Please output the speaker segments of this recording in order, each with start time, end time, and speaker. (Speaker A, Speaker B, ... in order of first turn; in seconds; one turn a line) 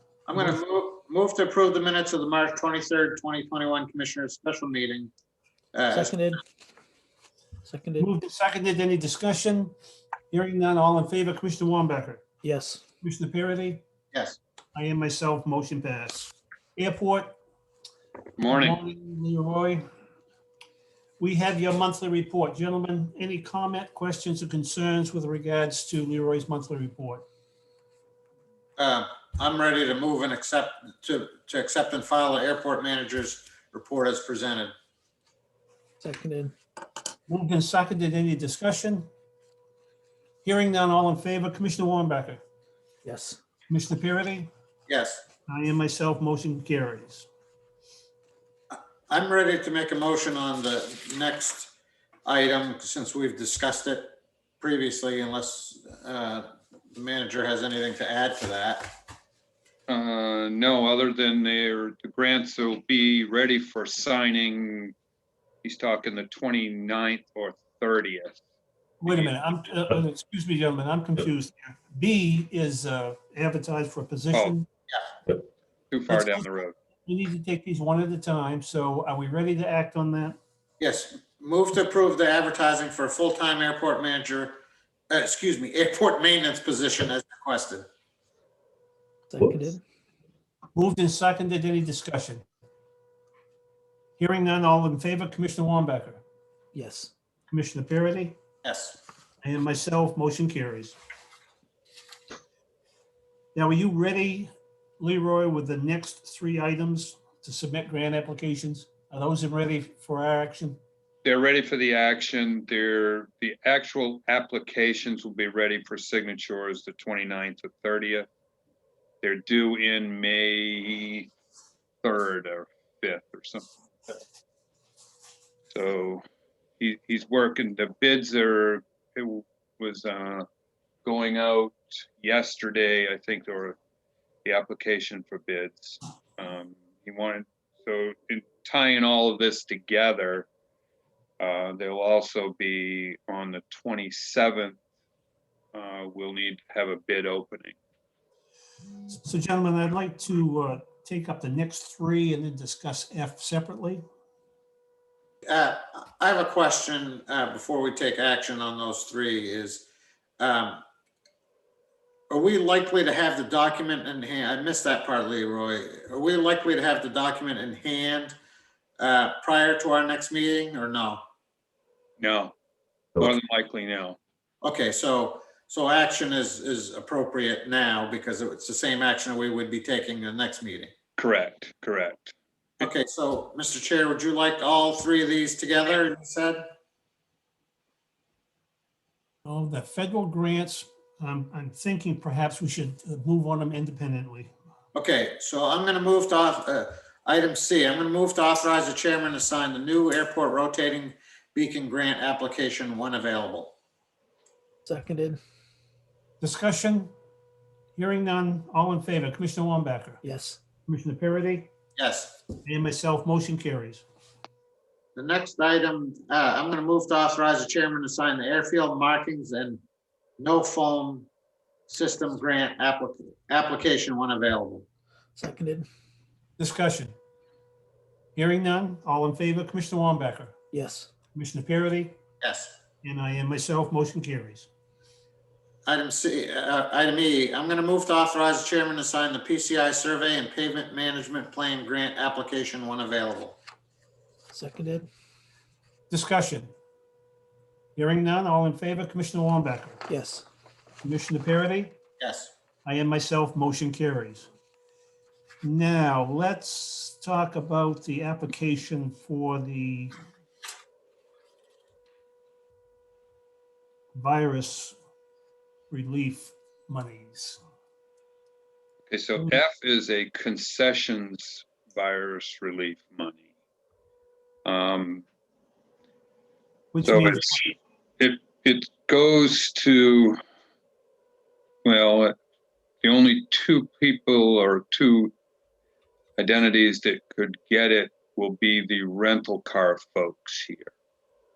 Speaker A: 0.3-5.1
Speaker A: 5.7-6.2
Speaker B: 5.9-6.4
Speaker B: 7.7-8.1
Speaker C: 8.0-9.7
Speaker C: 10.3-12.2
Speaker B: 12.4-12.8
Speaker C: 13.0-13.8
Speaker A: 14.1-14.4
Speaker C: 14.8-17.4
Speaker D: 18.4-18.8
Speaker C: 18.5-19.9
Speaker C: 21.2-27.2
Speaker A: 28.8-34.7
Speaker B: 36.0-36.5
Speaker C: 37.3-39.1
Speaker C: 40.4-42.4
Speaker B: 43.0-43.4
Speaker C: 43.7-44.5
Speaker A: 44.9-45.2
Speaker C: 45.5-47.3
Speaker A: 48.7-51.7
Speaker A: 52.3-59.0
Speaker D: 59.9-64.9
Speaker D: 65.6-68.4
Speaker C: 69.0-74.7
Speaker D: 69.0-69.3
Speaker D: 75.9-76.7
Speaker C: 76.1-76.5
Speaker C: 77.1-80.4
Speaker A: 80.8-84.6
Speaker A: 85.1-87.9
Speaker B: 89.3-89.8
Speaker C: 90.8-92.4
Speaker C: 94.2-96.2
Speaker B: 96.7-97.1
Speaker C: 97.5-98.4
Speaker A: 98.6-99.0
Speaker C: 99.4-101.0
Speaker C: 103.5-110.8
Speaker D: 111.2-118.3
Speaker D: 119.2-121.3
Speaker D: 122.0-124.2
Speaker D: 125.7-126.2
Speaker D: 126.8-130.4
Speaker D: 131.0-133.8
Speaker D: 134.4-140.5
Speaker D: 141.4-144.8
Speaker D: 145.7-147.8
Speaker C: 149.1-154.0
Speaker A: 155.4-159.8
Speaker A: 160.4-160.8
Speaker A: 162.3-168.3
Speaker A: 169.0-171.2
Speaker D: 172.2-172.5
Speaker D: 173.2-174.2
Speaker A: 174.6-180.9
Speaker D: 181.2-182.9
Speaker A: 182.8-186.6
Speaker C: 189.4-194.5
Speaker A: 194.9-203.7
Speaker B: 204.8-205.4
Speaker C: 206.4-207.1
Speaker C: 207.9-210.2
Speaker B: 210.2-210.6
Speaker C: 210.8-211.7
Speaker A: 211.9-212.4
Speaker C: 212.7-214.0
Speaker A: 215.2-219.8
Speaker A: 220.4-221.3
Speaker A: 221.9-224.8
Speaker B: 225.4-225.9
Speaker C: 226.6-227.1
Speaker C: 228.3-230.6
Speaker B: 230.7-231.1
Speaker C: 231.3-232.2
Speaker A: 232.4-232.7
Speaker C: 233.0-234.7
Speaker A: 235.8-243.6
Speaker B: 244.5-245.1
Speaker C: 246.1-246.7
Speaker C: 247.9-250.0
Speaker B: 250.1-250.4
Speaker C: 251.0-252.0
Speaker A: 252.2-252.5
Speaker C: 252.8-254.5
Speaker C: 255.6-260.1
Speaker C: 264.1-265.0
Speaker C: 265.9-267.6
Speaker D: 269.1-273.4
Speaker D: 274.6-275.2
Speaker C: 276.9-277.7
Speaker D: 277.1-280.4
Speaker D: 281.8-282.4
Speaker D: 283.0-285.3
Speaker D: 286.4-290.9